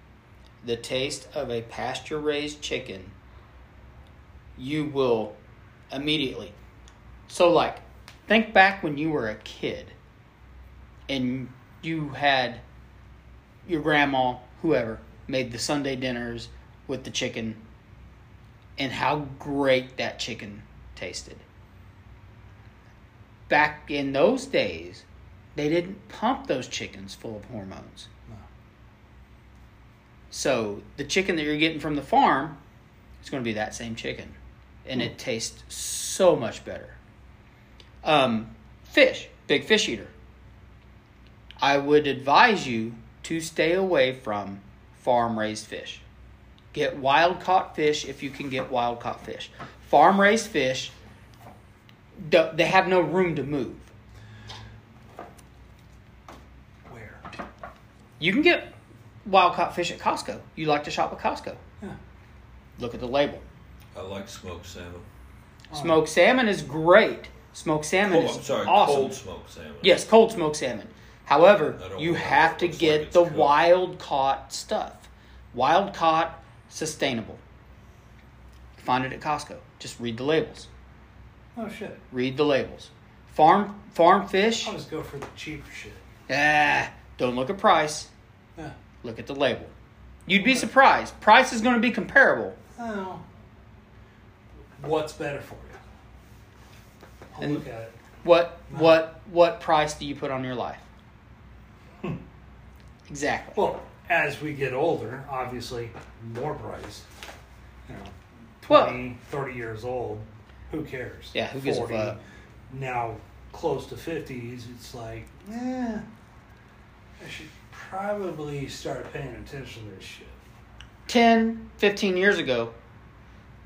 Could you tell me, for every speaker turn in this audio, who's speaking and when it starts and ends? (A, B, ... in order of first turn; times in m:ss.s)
0:00.6-0:03.1 A
0:04.6-0:05.3 A
0:05.9-0:06.5 A
0:07.3-0:09.9 A
0:11.1-0:12.6 A
0:13.6-0:17.6 A
0:18.8-0:21.4 A
0:23.5-0:25.0 A
0:25.5-0:28.1 A
0:30.3-0:32.6 A
0:33.2-0:37.0 A
0:38.0-0:40.1 A
0:41.6-0:46.0 A
0:46.7-0:50.9 A
0:52.1-0:53.9 A
0:56.9-0:57.2 B
0:58.2-0:58.7 A
0:59.2-1:01.6 A
1:02.8-1:03.4 A
1:03.9-1:05.0 C
1:05.7-1:06.0 B
1:05.7-1:09.2 A
1:08.0-1:10.0 C
1:09.8-1:17.4 A
1:11.7-1:13.6 C
1:18.8-1:20.7 A
1:21.5-1:22.0 B
1:22.1-1:24.7 A
1:24.6-1:26.0 B
1:26.3-1:28.1 A
1:29.0-1:29.7 A
1:30.3-1:32.6 A
1:30.4-1:30.7 B
1:32.8-1:33.2 B
1:34.8-1:35.8 B
1:37.3-1:37.9 B
1:37.4-1:37.6 A
1:38.2-1:40.8 A
1:38.7-1:39.0 B
1:43.1-1:43.6 A
1:43.5-1:47.0 B
1:47.9-1:56.0 B
1:48.7-1:49.0 A
1:51.3-1:52.2 A
1:57.2-2:00.4 B
2:01.1-2:02.7 A